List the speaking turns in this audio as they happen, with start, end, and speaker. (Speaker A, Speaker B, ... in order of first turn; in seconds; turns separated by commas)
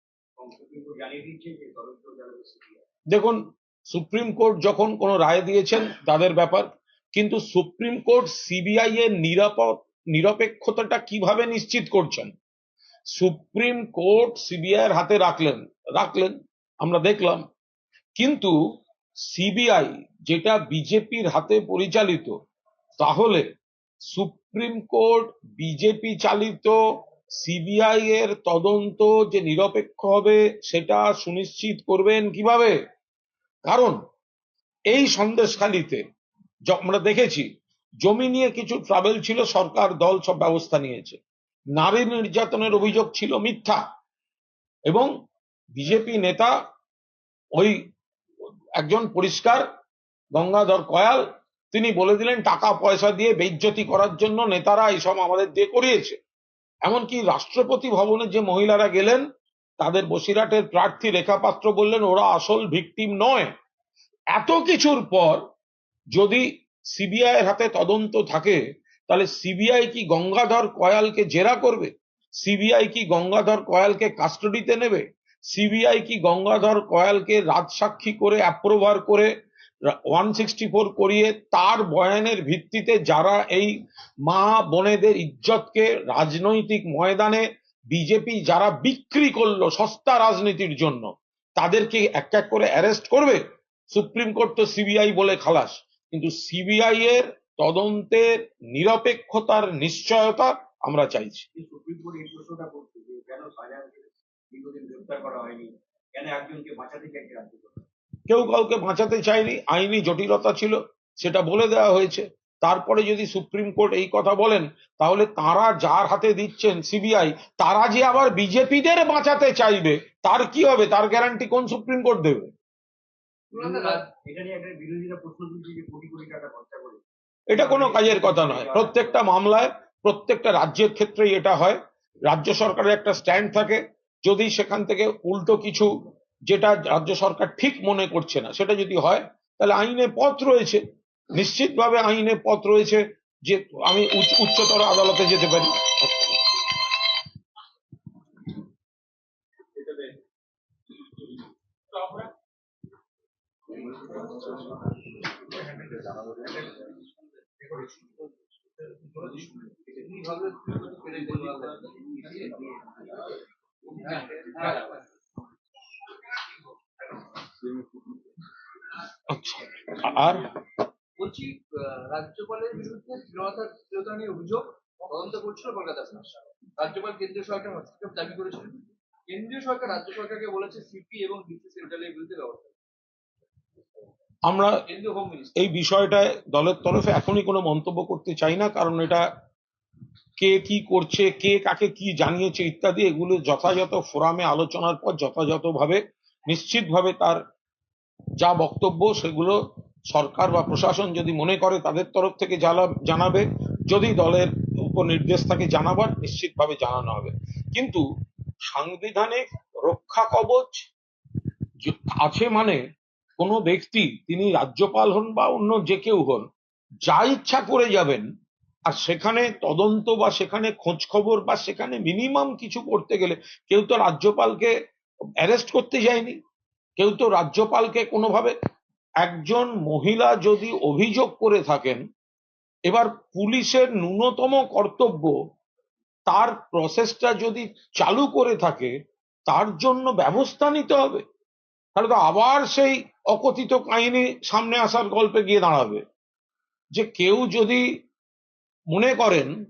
Speaker A: 0.4-2.8, Speaker B: 3.1-12.3, Speaker B: 13.2-17.4, Speaker B: 18.2-18.5, Speaker B: 19.3-22.3, Speaker B: 23.0-23.4, Speaker B: 24.1-26.8, Speaker B: 27.4-32.8, Speaker B: 33.7-34.0, Speaker B: 34.9-36.0, Speaker B: 36.7-37.5, Speaker B: 38.0-41.2, Speaker B: 41.8-43.8, Speaker B: 45.8-46.5, Speaker B: 48.8-49.6, Speaker B: 50.3-56.2, Speaker B: 56.9-59.2, Speaker B: 59.8-63.5, Speaker B: 64.3-65.4, Speaker B: 66.1-66.4, Speaker B: 66.9-79.3, Speaker B: 80.1-83.7, Speaker B: 84.3-93.4, Speaker B: 93.9-101.5, Speaker A: 101.5-107.8, Speaker B: 108.3-122.5, Speaker C: 123.5-124.1, Speaker A: 123.5-127.0, Speaker B: 127.5-135.9, Speaker A: 127.5-129.2, Speaker B: 136.5-140.8, Speaker B: 141.3-146.4, Speaker A: 149.7-150.2, Speaker A: 153.7-154.7, Speaker A: 155.7-156.4, Speaker C: 155.8-157.0, Speaker C: 157.6-157.9, Speaker C: 159.1-162.6, Speaker A: 159.2-159.9, Speaker A: 161.1-163.3, Speaker C: 163.9-165.0, Speaker A: 164.1-164.8, Speaker A: 167.4-168.2, Speaker B: 169.3-170.5, Speaker C: 171.2-182.7, Speaker B: 184.5-184.8, Speaker C: 184.8-185.7, Speaker B: 185.6-189.2, Speaker B: 190.4-197.4, Speaker B: 198.4-199.6, Speaker B: 200.1-208.0, Speaker B: 208.7-210.8, Speaker B: 211.8-212.8, Speaker B: 213.4-216.5, Speaker B: 217.1-218.2, Speaker B: 218.9-224.7, Speaker B: 225.4-226.4, Speaker B: 227.0-228.5, Speaker B: 229.2-232.0, Speaker B: 232.9-235.3, Speaker B: 236.3-238.9, Speaker B: 239.5-241.2, Speaker B: 241.9-246.0, Speaker B: 246.9-247.8, Speaker B: 248.9-249.5